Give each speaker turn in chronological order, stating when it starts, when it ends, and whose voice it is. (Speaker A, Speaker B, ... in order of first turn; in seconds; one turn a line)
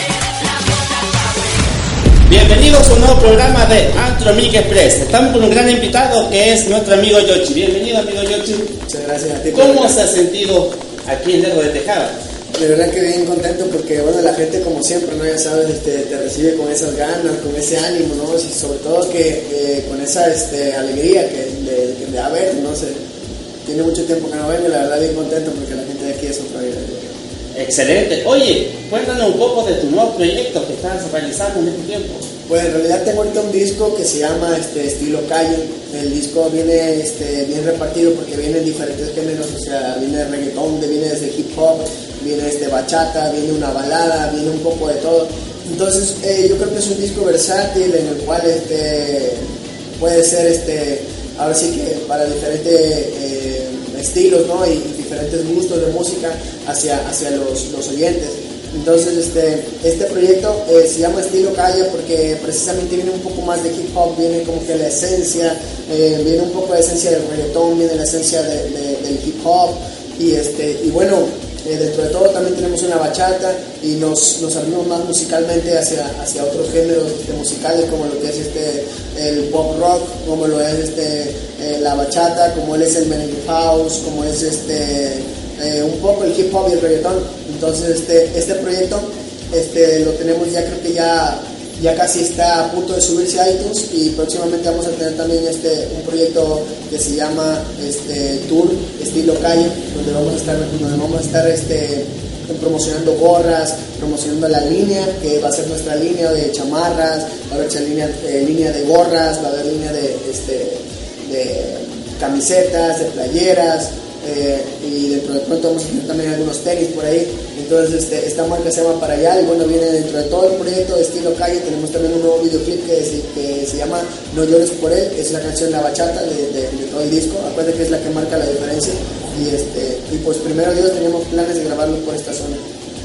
Speaker A: 2.3-8.7
Speaker B: 8.9-10.0
Speaker A: 9.5-12.1
Speaker B: 12.5-23.0
Speaker B: 23.6-27.1
Speaker A: 27.5-32.2
Speaker B: 32.5-49.5
Speaker B: 50.0-132.6